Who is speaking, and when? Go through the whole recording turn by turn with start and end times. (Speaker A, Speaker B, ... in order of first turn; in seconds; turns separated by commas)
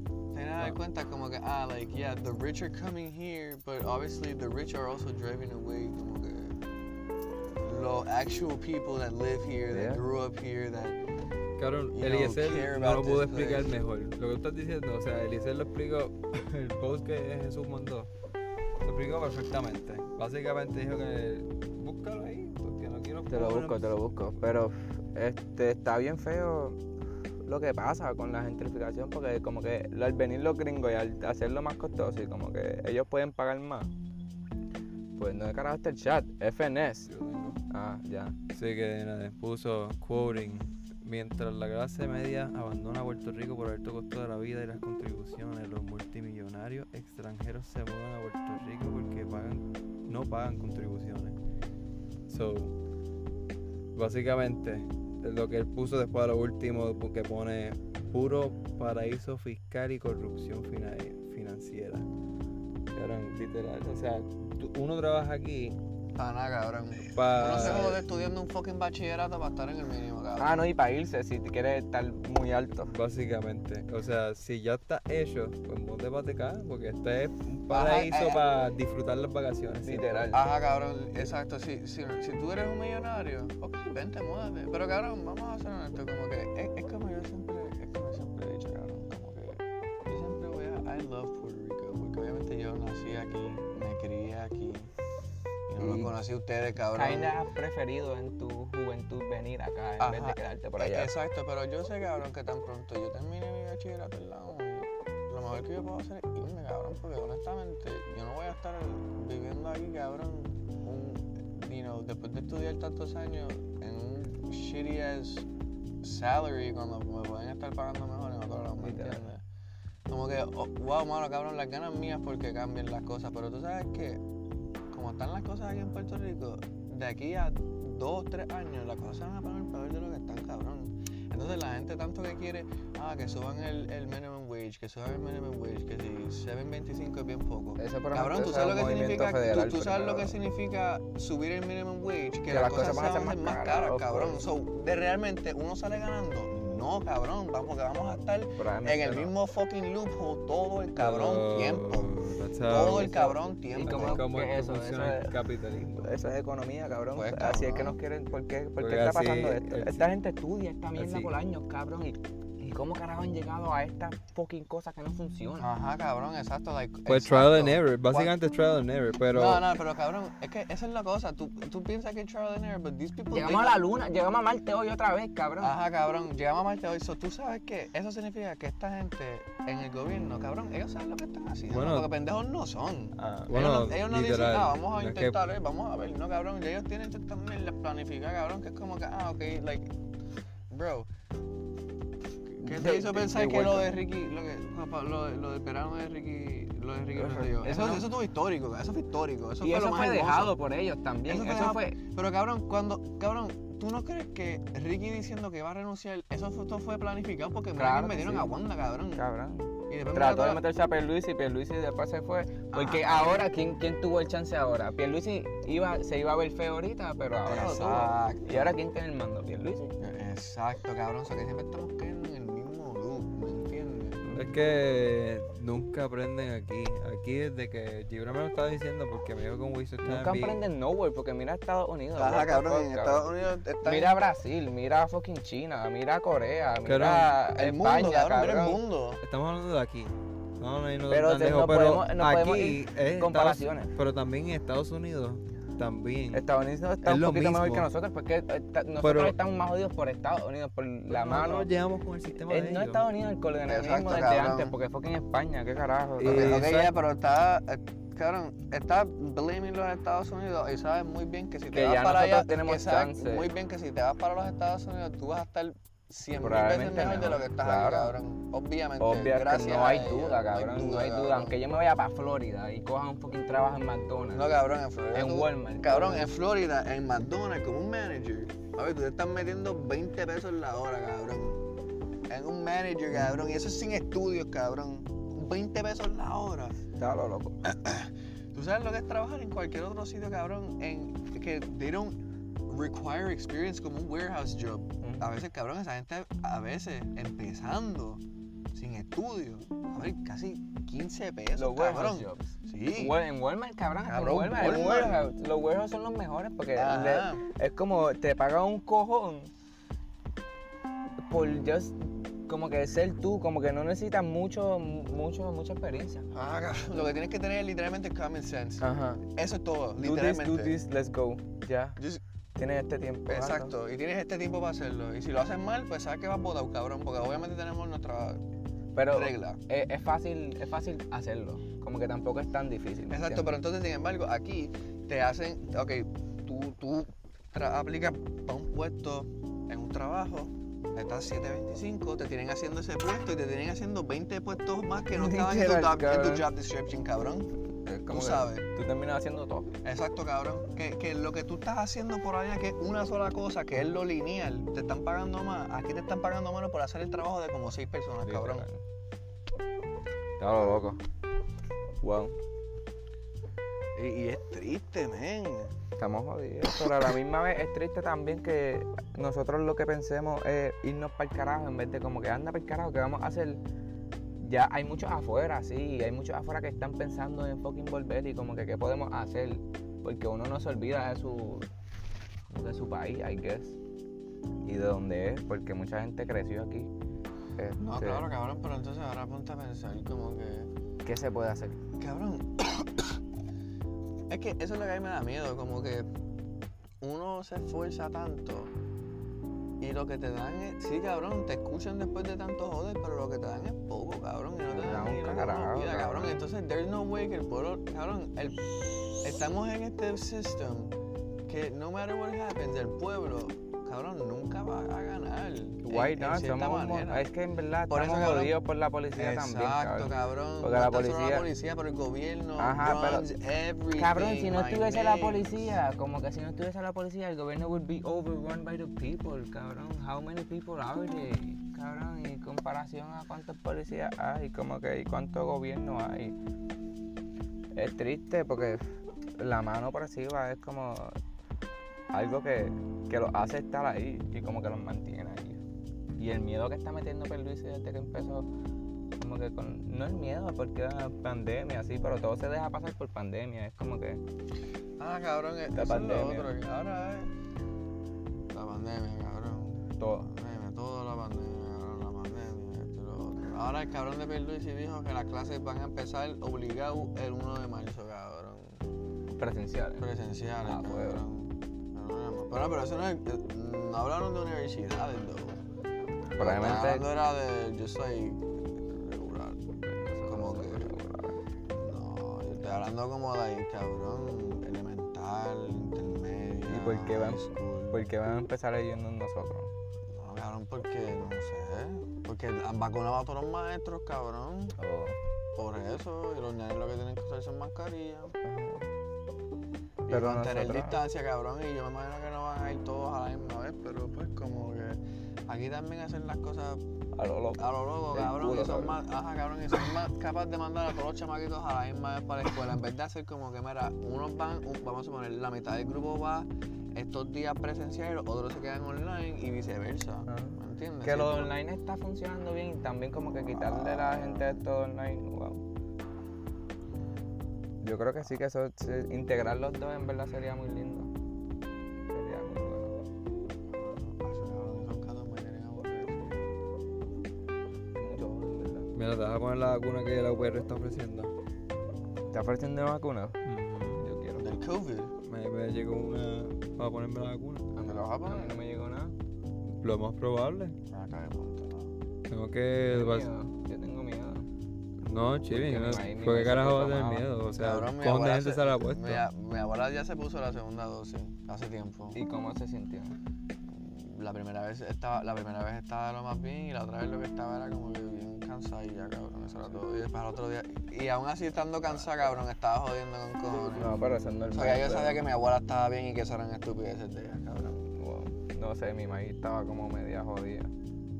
Speaker A: 0.3-6.6, Speaker A: 7.6-11.0, Speaker B: 9.7-10.0, Speaker C: 11.6-18.1, Speaker A: 11.9-13.7, Speaker C: 18.8-24.0, Speaker B: 23.3-26.8, Speaker B: 27.4-33.9, Speaker B: 35.1-37.1, Speaker C: 37.0-37.6, Speaker B: 37.7-38.4, Speaker C: 38.5-51.4, Speaker C: 52.3-52.7, Speaker C: 54.0-62.1, Speaker C: 62.9-65.8, Speaker A: 66.1-70.7, Speaker C: 67.1-68.0, Speaker B: 67.5-68.1, Speaker B: 70.4-72.9, Speaker C: 72.8-80.3, Speaker A: 77.7-78.5, Speaker B: 79.8-80.5, Speaker A: 80.3-94.9, Speaker A: 95.7-97.4, Speaker B: 95.8-96.2, Speaker B: 96.9-101.1, Speaker A: 100.0-115.5, Speaker A: 116.0-119.4, Speaker B: 118.8-119.3, Speaker A: 120.1-124.2, Speaker A: 124.9-152.1, Speaker B: 137.8-140.4, Speaker B: 142.5-144.4, Speaker B: 148.6-149.3, Speaker C: 151.0-153.3, Speaker A: 152.7-154.2, Speaker B: 152.9-155.3, Speaker C: 153.8-156.1, Speaker B: 156.0-165.7, Speaker A: 157.1-158.0, Speaker C: 158.8-160.1, Speaker C: 160.9-161.3, Speaker A: 165.6-168.3, Speaker C: 167.1-169.6, Speaker A: 169.3-173.8, Speaker B: 173.3-175.8, Speaker A: 175.6-189.9, Speaker C: 181.7-182.1, Speaker B: 183.2-183.5, Speaker C: 183.5-185.5, Speaker A: 190.7-191.1, Speaker A: 192.5-200.6, Speaker B: 192.6-194.1, Speaker B: 197.1-198.1, Speaker B: 199.6-202.0, Speaker A: 201.2-209.2, Speaker B: 207.7-208.6, Speaker B: 209.1-219.9, Speaker A: 209.9-210.6, Speaker A: 212.7-213.5, Speaker A: 217.4-218.8, Speaker A: 220.0-224.2, Speaker B: 224.2-224.6, Speaker C: 224.3-230.6, Speaker B: 230.0-233.3, Speaker A: 232.2-234.2, Speaker B: 233.8-238.8, Speaker C: 236.8-237.3, Speaker A: 237.5-239.2, Speaker C: 239.2-246.4, Speaker B: 241.1-243.9, Speaker B: 246.3-251.7, Speaker C: 247.0-247.9, Speaker C: 249.0-249.3, Speaker C: 251.1-253.1, Speaker B: 252.3-256.6, Speaker A: 253.7-254.8, Speaker C: 256.2-256.9, Speaker A: 256.2-271.6, Speaker B: 261.7-263.5, Speaker B: 266.3-268.2, Speaker B: 269.0-274.5, Speaker A: 274.3-281.6, Speaker B: 275.1-276.3, Speaker A: 282.3-286.8, Speaker B: 283.1-283.4, Speaker B: 287.0-287.6, Speaker A: 287.6-298.2, Speaker A: 298.7-303.2, Speaker B: 301.5-309.5, Speaker A: 304.1-305.2, Speaker A: 306.8-307.4, Speaker B: 311.3-316.3, Speaker A: 316.3-320.8, Speaker B: 318.8-319.2, Speaker B: 319.9-322.0, Speaker A: 322.0-322.2, Speaker B: 322.6-323.7, Speaker A: 323.3-328.4, Speaker B: 328.9-333.5, Speaker A: 329.1-329.6, Speaker A: 333.1-347.5, Speaker B: 345.1-346.5, Speaker B: 347.9-349.7, Speaker A: 348.1-348.6, Speaker A: 349.8-358.6, Speaker B: 358.2-358.8, Speaker B: 360.4-361.0, Speaker B: 362.0-362.4, Speaker A: 363.9-365.7, Speaker B: 366.0-373.6, Speaker B: 374.4-381.7, Speaker B: 382.5-383.8, Speaker B: 384.6-386.9, Speaker B: 387.6-388.3, Speaker A: 387.8-390.7, Speaker B: 391.0-391.8, Speaker A: 392.0-393.1, Speaker A: 394.3-396.1, Speaker A: 397.0-398.7, Speaker A: 399.8-410.9, Speaker B: 404.7-406.5, Speaker A: 411.5-417.2, Speaker B: 415.8-421.5, Speaker A: 417.9-418.5, Speaker A: 419.1-425.7, Speaker B: 422.6-423.3, Speaker B: 423.9-436.3, Speaker B: 437.8-441.2, Speaker B: 442.1-445.6, Speaker B: 446.2-448.5, Speaker B: 449.2-454.2, Speaker A: 455.0-457.3, Speaker B: 455.7-456.5, Speaker A: 458.5-468.8, Speaker B: 460.0-460.3, Speaker B: 469.3-470.1, Speaker A: 470.0-475.6, Speaker B: 470.6-471.2, Speaker A: 476.4-479.7, Speaker B: 476.4-477.1, Speaker B: 479.8-481.4, Speaker A: 480.3-480.9, Speaker A: 481.7-488.1, Speaker B: 486.7-489.7, Speaker A: 490.1-494.8, Speaker B: 494.8-495.2, Speaker A: 495.6-498.4, Speaker B: 498.4-498.9, Speaker A: 500.1-506.8, Speaker B: 500.1-501.0, Speaker B: 507.1-509.0, Speaker A: 507.6-521.5, Speaker B: 520.3-525.6, Speaker A: 523.5-524.6, Speaker B: 527.8-531.1, Speaker B: 532.1-533.0, Speaker A: 533.7-536.6, Speaker B: 537.9-538.9, Speaker C: 538.9-541.3, Speaker B: 542.3-543.4, Speaker C: 543.4-544.0, Speaker B: 544.0-544.5, Speaker A: 544.4-545.1, Speaker C: 545.2-547.7, Speaker B: 547.7-549.1, Speaker A: 547.8-548.6, Speaker C: 549.7-550.8, Speaker A: 550.9-551.9, Speaker C: 552.3-553.3, Speaker B: 552.8-554.5, Speaker C: 555.0-559.2, Speaker B: 555.4-557.3, Speaker A: 557.6-562.2, Speaker B: 562.1-563.2, Speaker A: 563.6-577.8, Speaker B: 571.7-572.4, Speaker B: 573.7-575.2, Speaker B: 577.8-580.7